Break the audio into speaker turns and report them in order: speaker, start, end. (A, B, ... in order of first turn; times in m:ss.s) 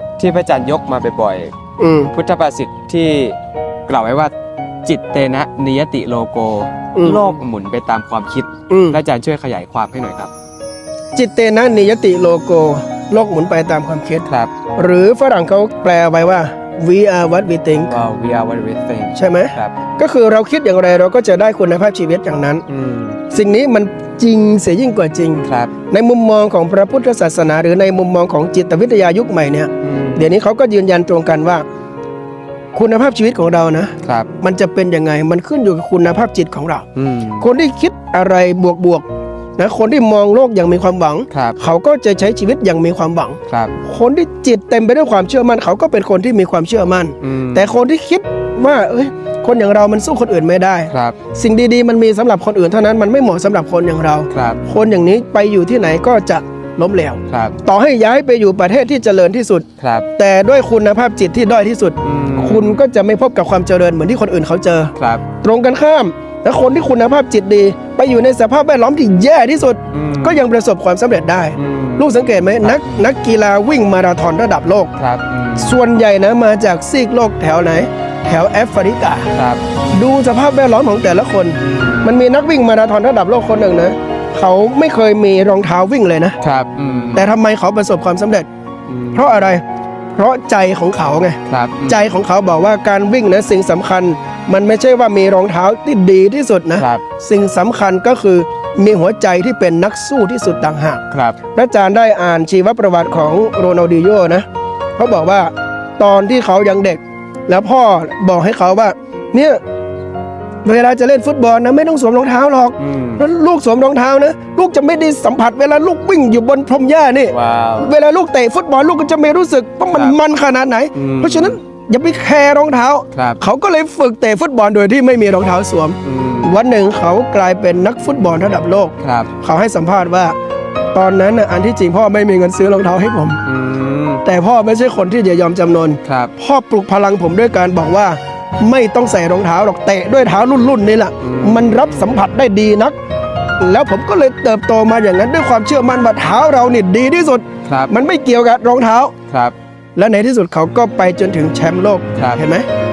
0:00.2-0:01.5 A
0:01.8-0:02.1 B
0:02.1-0:03.4 A
0:03.9-0:04.3 A
0:04.8-0:10.3 A
0:06.9-0:07.4 B
0:08.7-0:09.0 B
0:11.1-0:17.9 B
0:14.3-0:14.6 A
0:17.9-0:19.8 A
0:19.2-0:22.6 B
0:22.7-0:23.2 A
0:23.3-0:31.6 B
0:25.4-0:25.7 A
0:29.8-0:30.3 A
0:32.7-0:36.8 B
0:34.0-0:34.3 A
0:37.0-0:37.5 A
0:37.4-0:39.0 B
0:39.6-1:14.9 B
0:41.3-0:41.6 A
0:43.5-0:43.7 A
0:47.2-0:47.8 A
0:50.9-0:51.2 A
0:54.3-0:54.6 A
0:57.3-0:57.6 A
0:59.8-1:00.1 A
1:02.0-1:02.8 A
1:05.0-1:05.2 A
1:09.9-1:10.4 A
1:11.6-1:12.1 A
1:12.6-1:13.1 A
1:15.0-1:15.8 A
1:15.6-1:19.3 B
1:19.3-1:20.0 A
1:19.9-1:26.4 B
1:21.6-1:22.1 A
1:26.4-1:27.3 A
1:27.1-1:28.5 B
1:28.9-1:29.3 A
1:29.1-1:41.0 B
1:31.4-1:32.0 A
1:36.8-1:37.0 A
1:41.1-1:41.4 A
1:41.6-1:44.4 B
1:45.0-1:49.6 B
1:50.6-2:10.4 B
1:52.8-1:53.2 A
1:57.3-1:57.9 A
2:01.0-2:01.6 A
2:03.1-2:03.4 A
2:06.0-2:06.6 A
2:09.0-2:09.3 A
2:10.9-2:13.4 B
2:13.4-2:14.2 A
2:14.2-2:23.0 B
2:16.0-2:16.3 A
2:21.2-2:22.0 A
2:23.6-2:29.1 B
2:27.6-2:27.9 A
2:29.3-2:29.5 A
2:30.0-2:32.7 B
2:32.1-2:32.4 A